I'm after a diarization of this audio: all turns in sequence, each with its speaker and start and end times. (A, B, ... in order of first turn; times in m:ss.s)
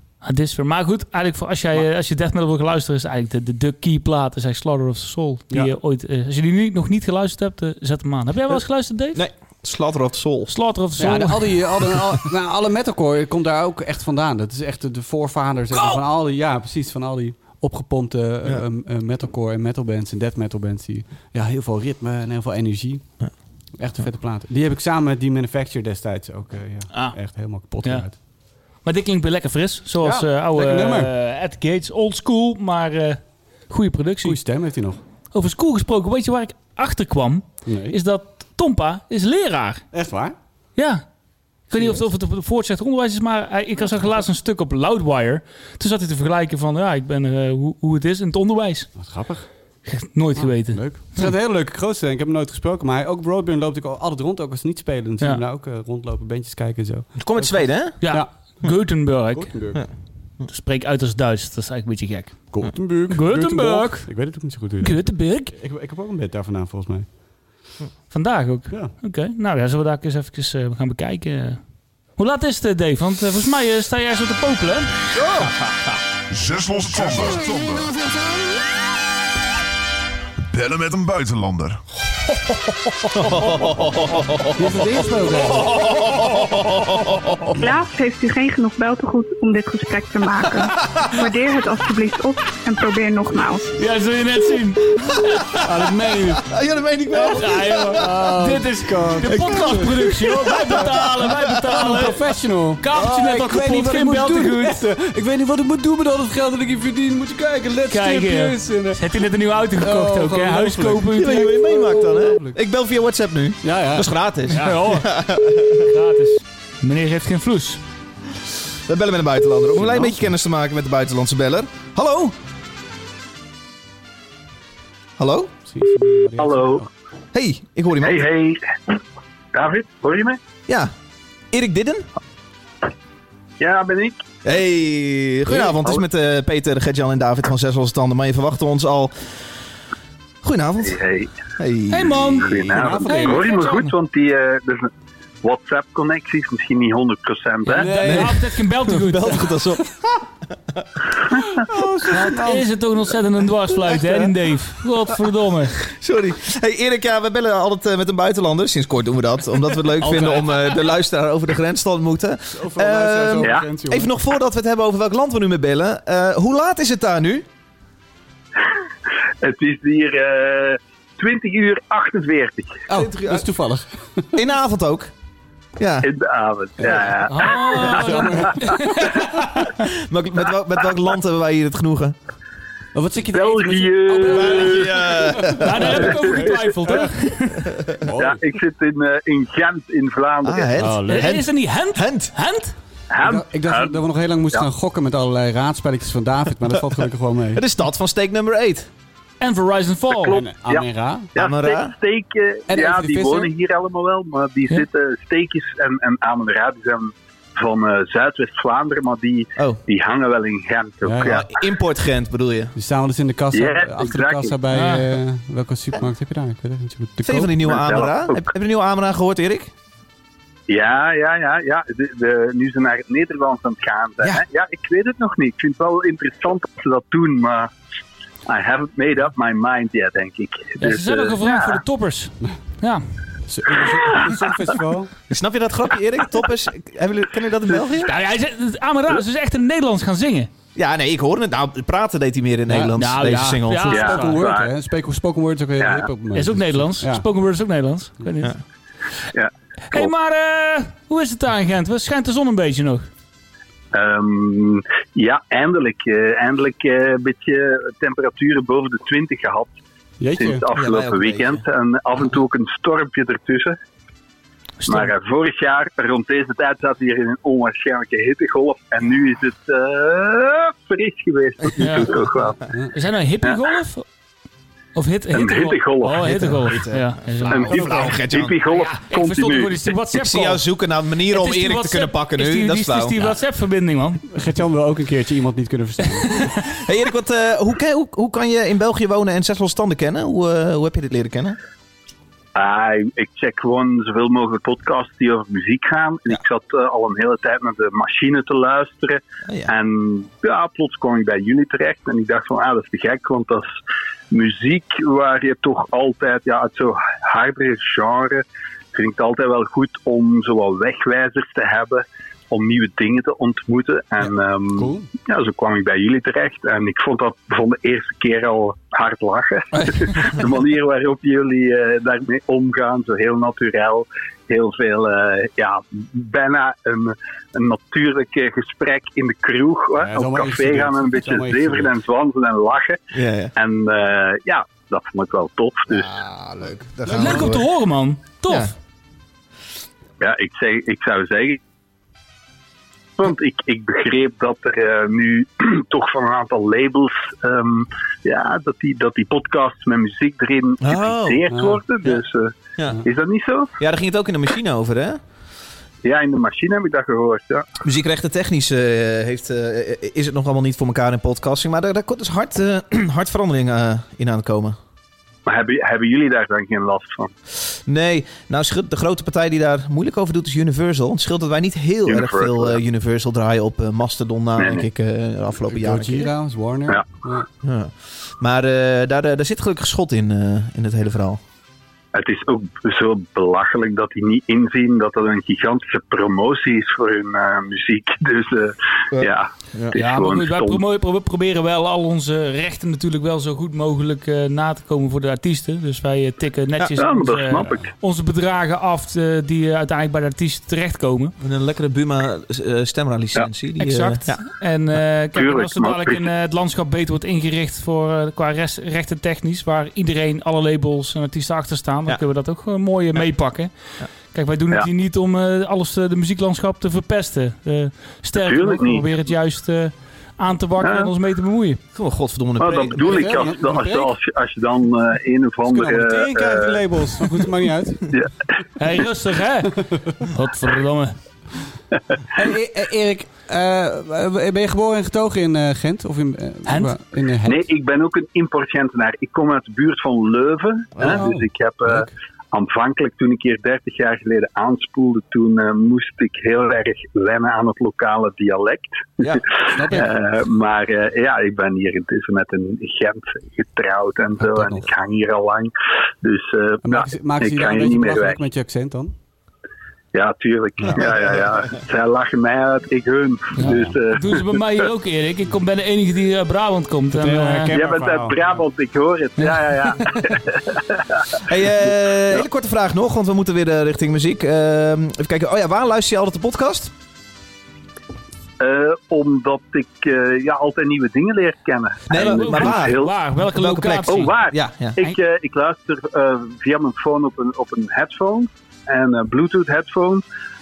0:00.2-0:09.2 A
0:09.1-0:10.5 B
0:10.5-0:11.8 A
0:11.0-0:28.2 C
0:27.8-0:28.2 A
0:28.8-0:34.4 A
0:30.0-0:31.1 C
0:34.2-0:35.0 C
0:35.3-0:39.9 A
0:37.6-0:38.0 C
0:39.9-0:40.4 C
0:40.8-0:41.1 A
0:41.6-0:49.0 A
0:41.7-0:42.1 C
0:49.0-0:49.6 C
0:49.8-0:51.3 A
0:50.4-0:58.7 C
0:57.2-0:58.0 B
0:58.0-0:59.6 A
0:59.3-0:59.8 C
1:00.5-1:05.5 A
1:02.5-1:07.2 C
1:08.1-1:11.6 A
1:12.1-1:15.0 A
1:15.2-1:15.5 B
1:16.3-1:18.0 D
1:20.5-1:21.8 D
1:23.1-1:27.3 B
1:23.3-1:23.6 C
1:24.6-1:25.8 C
1:27.6-1:33.6 E
1:30.8-1:31.2 B
1:33.8-1:35.6 A
1:35.6-1:41.1 C
1:36.4-1:38.3 B
1:37.3-1:42.2 A
1:39.2-1:41.8 B
1:41.7-1:49.2 C
1:42.8-1:44.8 A
1:47.9-1:51.6 A
1:49.8-1:52.6 C
1:51.2-1:55.9 B
1:53.6-1:54.8 C
1:54.6-1:55.1 A
1:55.9-1:57.8 A
1:58.9-2:02.4 B
1:59.8-2:00.3 C
2:05.2-2:05.5 B
2:05.7-2:06.9 C
2:06.4-2:06.9 F
2:07.3-2:08.2 B
2:08.0-2:09.0 F
2:09.5-2:10.4 F
2:11.5-2:12.1 B
2:13.6-2:14.2 F
2:14.4-2:19.4 B
2:15.7-2:16.0 F
2:20.4-2:21.0 B
2:20.8-2:21.3 F
2:21.6-2:22.5 B
2:21.9-2:23.9 A
2:22.4-2:28.0 F
2:22.5-2:23.5 C
2:27.7-2:28.4 C
2:27.7-2:29.6 A
2:28.0-2:30.0 B
2:31.7-2:32.6 C
2:31.7-2:32.4 B
2:32.1-2:35.8 A
2:35.8-2:47.4 B
2:40.0-2:40.5 A
2:42.5-2:44.1 C
2:43.4-2:43.7 F
2:49.4-2:52.8 F
2:52.9-2:54.4 C
2:52.9-2:53.5 B
2:54.4-2:55.1 B
2:55.8-2:56.1 B
2:56.0-2:58.8 F
2:56.8-2:57.2 C
2:57.3-2:59.7 A
2:57.8-2:59.2 C
2:59.8-3:02.2 B
3:02.9-3:07.1 C
3:03.3-3:05.0 F
3:04.3-3:06.0 B
3:05.6-3:07.7 A
3:06.0-3:06.6 F
3:08.0-3:08.4 C
3:08.2-3:10.8 F
3:10.4-3:12.3 B
3:10.8-3:11.4 C
3:11.1-3:12.7 A
3:13.1-3:14.7 F
3:13.2-3:17.6 C
3:17.5-3:18.9 B
3:19.4-3:20.4 A
3:20.1-3:31.5 F
3:20.3-3:21.3 C
3:21.4-3:22.0 B
3:22.7-3:23.5 C
3:31.0-3:31.4 C
3:31.2-3:32.7 B
3:32.8-3:37.8 C
3:33.5-3:34.6 F
3:34.7-3:35.1 A
3:37.2-3:39.7 B
3:37.7-3:38.5 F
3:40.7-3:47.7 F
3:48.5-3:51.8 F
3:50.8-3:53.1 A
3:53.5-3:55.2 C
3:55.3-3:58.1 B
3:57.7-3:58.0 F
3:58.0-4:00.5 A
4:00.8-4:04.1 B
4:02.7-4:07.2 C
4:03.0-4:04.4 A
4:03.9-4:04.7 F
4:05.8-4:06.1 F
4:06.3-4:08.5 A
4:09.3-4:10.1 F
4:09.9-4:13.1 A
4:13.9-4:19.8 F
4:20.2-4:20.6 C
4:20.4-4:23.8 F
4:20.7-4:21.6 B
4:24.8-4:25.1 A
4:24.9-4:32.6 F
4:31.8-4:32.2 A
4:32.9-4:34.1 A
4:35.0-4:38.1 A
4:35.3-4:36.3 F
4:36.2-4:38.6 B
4:37.4-4:39.9 F
4:38.7-4:40.6 A
4:40.1-4:43.4 B
4:41.3-4:44.2 A
4:44.3-4:46.5 C
4:46.2-4:46.6 A
4:46.8-4:51.6 B
4:52.6-5:03.7 F
5:04.3-5:33.0 F
5:14.8-5:15.1 C
5:30.0-5:32.0 C
5:33.1-5:33.5 B
5:33.6-5:36.1 F
5:35.9-5:37.7 B
5:37.1-5:38.7 A
5:38.5-5:38.7 B
5:40.2-5:41.6 F
5:43.2-5:53.7 F
5:50.8-5:51.5 B
5:51.5-5:51.8 C
5:53.8-5:55.2 B
5:56.0-5:57.7 F
5:57.8-6:04.8 B
6:05.5-6:07.3 F
6:07.9-6:16.3 B
6:12.1-6:12.8 F
6:14.6-6:14.9 F
6:15.7-6:17.5 C
6:17.6-6:21.4 B
6:22.1-6:30.8 F
6:29.1-6:29.9 B
6:29.9-6:41.3 A
6:37.0-6:37.9 F
6:41.4-6:44.4 B
6:43.8-7:01.8 A
6:45.3-6:46.3 F
6:58.4-6:59.1 F
7:00.8-7:01.1 F
7:02.0-7:03.4 B
7:02.6-7:06.8 F
7:03.0-7:04.1 C
7:05.6-7:08.0 C
7:08.8-7:11.2 A
7:12.4-7:17.7 C
7:16.7-7:16.9 A
7:17.4-7:38.5 F
7:21.0-7:21.2 B
7:21.0-7:22.1 C
7:29.7-7:30.1 C
7:34.4-7:34.9 C
7:36.8-7:39.2 C
7:40.1-7:44.5 F
7:43.6-7:47.7 A
7:43.6-7:44.0 C
7:47.2-7:48.6 C
7:47.7-7:51.4 F
7:51.5-7:56.9 B
7:58.6-8:03.2 F
8:02.1-8:05.0 B
8:02.2-8:04.4 A
8:04.1-8:10.2 F